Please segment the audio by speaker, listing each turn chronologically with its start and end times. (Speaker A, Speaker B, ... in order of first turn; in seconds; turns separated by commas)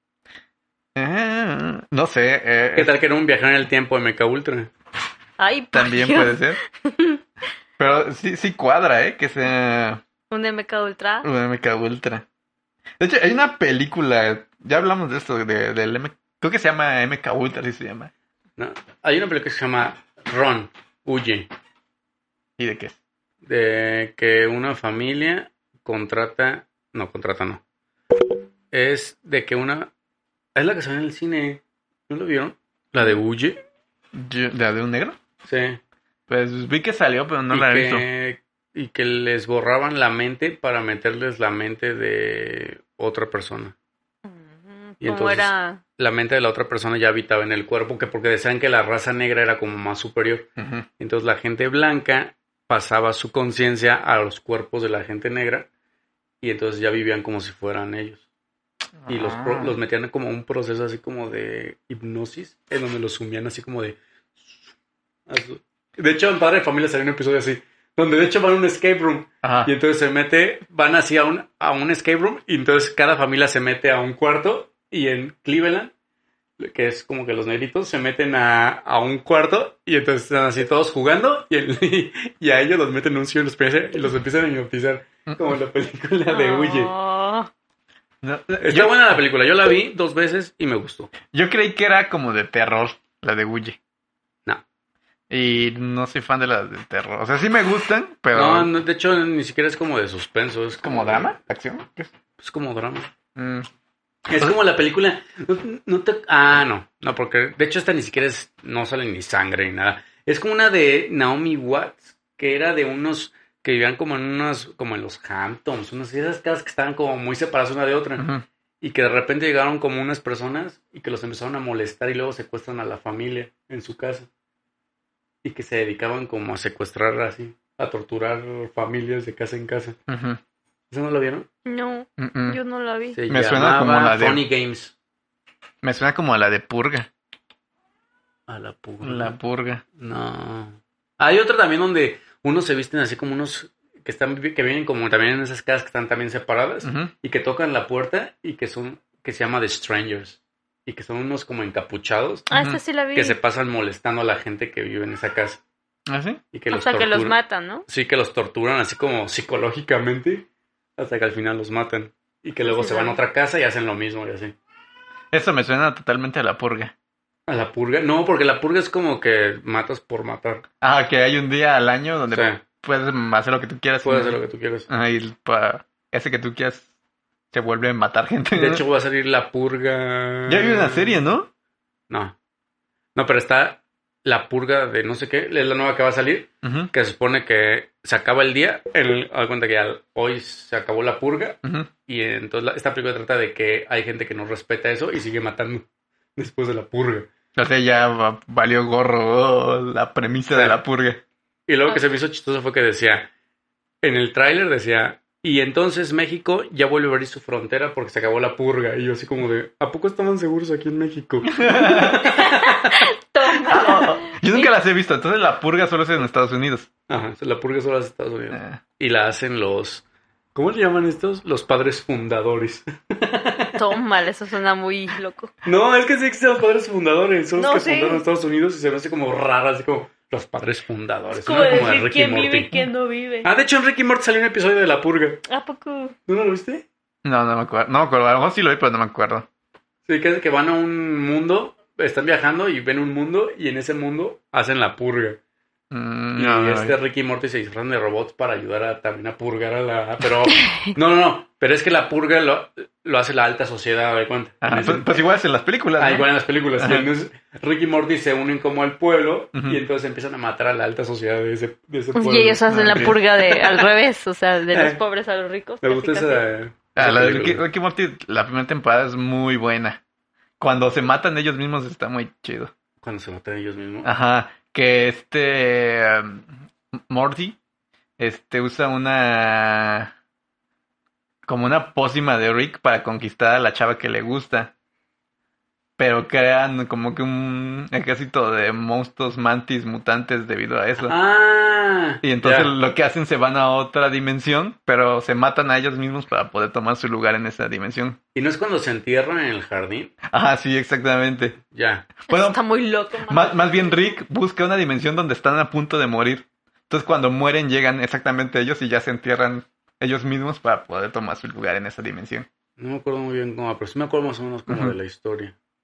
Speaker A: 1.0-2.9, Speaker B: 2.8-4.7, Speaker C: 5.4-7.2, Speaker A: 5.7-6.6, Speaker A: 7.8-10.0, Speaker C: 10.3-11.3, Speaker A: 11.2-12.2, Speaker A: 13.0-18.1, Speaker B: 18.6-21.5, Speaker A: 22.6-23.0, Speaker B: 23.4-27.6, Speaker B: 28.7-29.9, Speaker B: 30.6-33.6, Speaker A: 34.1-35.2, Speaker B: 35.5-35.8, Speaker A: 36.3-38.0, Speaker B: 37.5-43.8, Speaker C: 44.3-45.8, Speaker B: 45.0-50.5, Speaker A: 50.6-50.9, Speaker B: 51.0-55.7, Speaker B: 56.4-58.2, Speaker A: 59.0-59.8, Speaker B: 59.1-64.7, Speaker B: 65.3-75.9, Speaker A: 69.4-69.7, Speaker B: 76.6-86.9, Speaker C: 86.3-87.5, Speaker A: 88.2-89.0, Speaker B: 88.6-91.1, Speaker A: 91.3-93.8, Speaker A: 95.3-98.7, Speaker B: 98.3-101.3, Speaker A: 100.8-102.1, Speaker B: 102.4-103.1, Speaker A: 103.4-103.7, Speaker B: 104.3-118.3, Speaker A: 118.2-118.5, Speaker B: 118.8-124.3, Speaker B: 125.4-130.0, Speaker A: 130.1-130.4, Speaker B: 130.9-131.5, Speaker C: 131.7-133.2, Speaker A: 132.2-132.6, Speaker B: 133.1-134.9, Speaker A: 133.3-134.4, Speaker A: 135.8-137.1, Speaker B: 138.5-139.3, Speaker A: 139.0-139.8, Speaker B: 139.9-152.5, Speaker A: 146.8-147.1, Speaker C: 152.5-153.4, Speaker A: 152.5-152.8, Speaker B: 153.1-155.6, Speaker A: 156.1-156.4, Speaker B: 156.5-157.3, Speaker C: 156.7-157.9, Speaker B: 157.9-160.5, Speaker B: 161.0-164.6, Speaker C: 162.7-163.2, Speaker A: 165.3-166.9, Speaker B: 167.5-170.6, Speaker A: 170.8-176.9, Speaker B: 172.3-172.6, Speaker B: 174.0-174.9, Speaker A: 177.5-178.8, Speaker B: 178.5-181.2, Speaker A: 180.5-181.5, Speaker B: 182.1-182.3, Speaker B: 183.2-195.8, Speaker A: 186.6-186.9, Speaker A: 191.6-191.9, Speaker B: 196.4-197.3, Speaker A: 197.6-201.2, Speaker B: 200.5-200.8, Speaker B: 201.7-203.3, Speaker B: 204.0-212.9, Speaker A: 211.6-212.2, Speaker C: 212.2-214.7, Speaker A: 213.7-216.9, Speaker B: 217.1-220.0, Speaker A: 218.5-218.8, Speaker B: 220.6-223.8, Speaker C: 223.8-225.5, Speaker B: 225.7-232.8, Speaker C: 227.6-228.2, Speaker C: 231.3-233.5, Speaker B: 233.4-235.4, Speaker C: 235.5-236.2, Speaker B: 236.3-236.8, Speaker A: 237.2-239.5, Speaker B: 240.1-245.4, Speaker A: 245.9-247.0, Speaker B: 246.4-255.2, Speaker C: 250.6-250.9, Speaker A: 254.6-257.1, Speaker B: 256.0-263.9, Speaker A: 259.5-259.8, Speaker C: 262.2-266.4, Speaker A: 262.7-263.2, Speaker B: 264.7-265.0, Speaker B: 265.8-267.6, Speaker A: 267.0-270.0, Speaker A: 270.6-272.7, Speaker B: 273.0-274.1, Speaker A: 274.0-276.5, Speaker A: 277.1-277.6, Speaker A: 278.2-280.1, Speaker A: 281.5-284.7, Speaker A: 286.0-291.2, Speaker B: 291.0-292.7, Speaker A: 292.2-298.2, Speaker B: 298.4-300.1, Speaker A: 300.3-301.6, Speaker B: 301.7-302.1, Speaker A: 302.2-302.6, Speaker C: 302.3-304.1, Speaker A: 303.3-312.5, Speaker B: 312.8-315.5, Speaker A: 314.7-315.0